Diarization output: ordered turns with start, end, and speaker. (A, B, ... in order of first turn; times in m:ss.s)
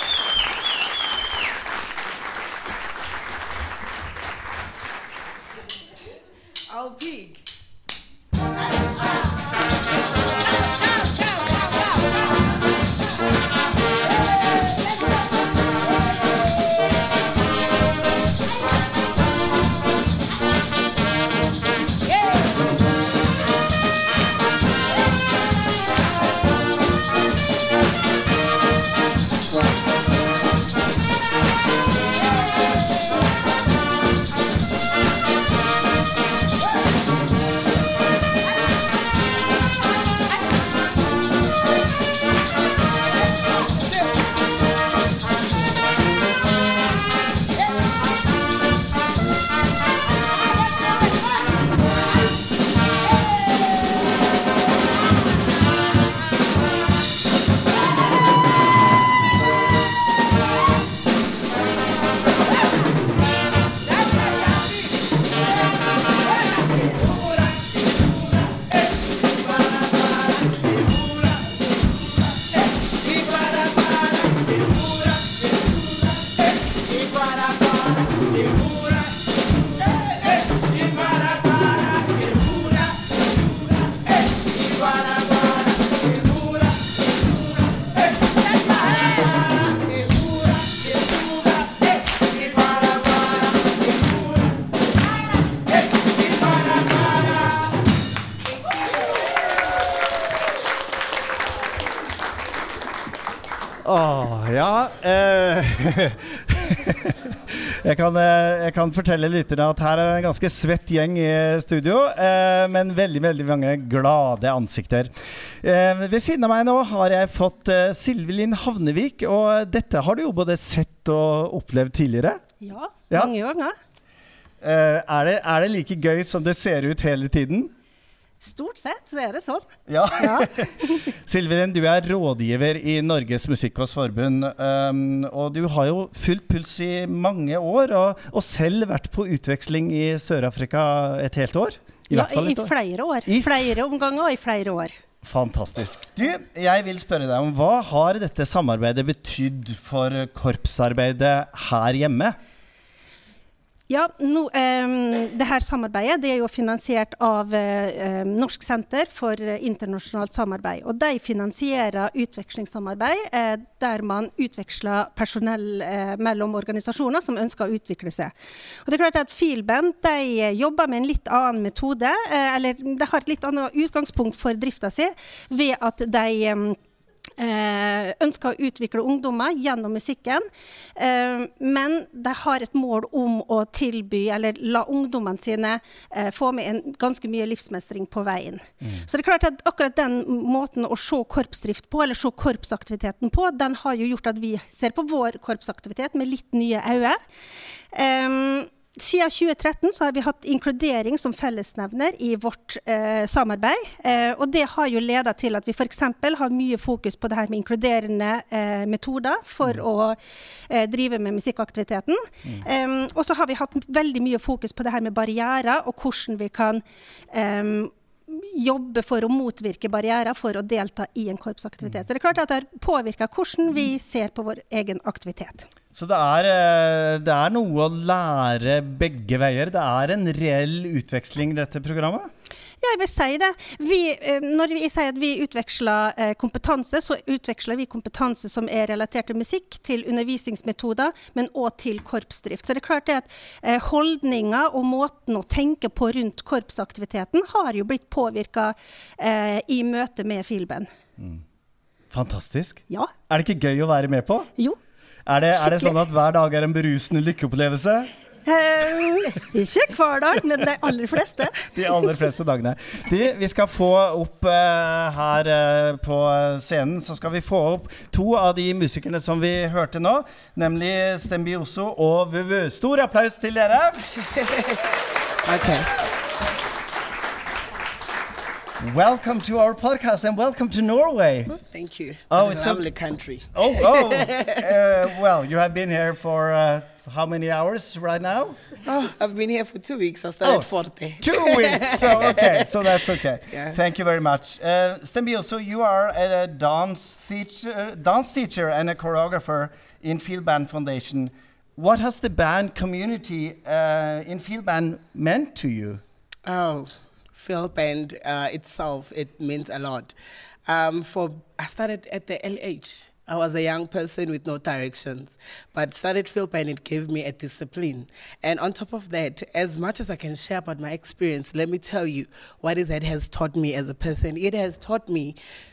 0:06.7-0:07.4 A
1:13.1-1:15.4 A
1:16.9-1:19.0 A
1:20.3-1:23.1 A
1:23.9-1:26.6 A
1:30.1-1:31.8 A
1:32.4-1:33.3 A
1:43.8-2:02.4 B
2:02.6-2:03.8 C
2:04.6-2:07.7 B
2:08.4-2:11.0 C
2:09.9-2:22.7 B
2:22.1-2:24.9 C
2:23.2-2:23.7 B
2:25.2-2:32.4 B
2:33.9-2:48.3 C
2:48.8-2:56.8 C
2:57.4-3:17.2 C
3:17.9-3:45.7 C
3:45.9-3:52.3 B
3:52.8-4:10.9 C
4:12.1-4:14.5 B
4:15.3-4:18.1 B
4:15.6-4:16.0 C
4:18.4-4:22.1 C
4:21.7-4:34.0 B
4:34.4-4:34.8 A
4:35.4-4:35.9 A
4:38.8-4:41.6 B
4:41.5-4:44.6 A
4:42.3-4:42.9 B
4:43.5-4:48.6 B
4:48.8-4:52.9 A
4:51.2-5:06.0 B
4:53.5-4:53.8 A
5:06.4-5:10.1 A
5:10.6-5:25.4 A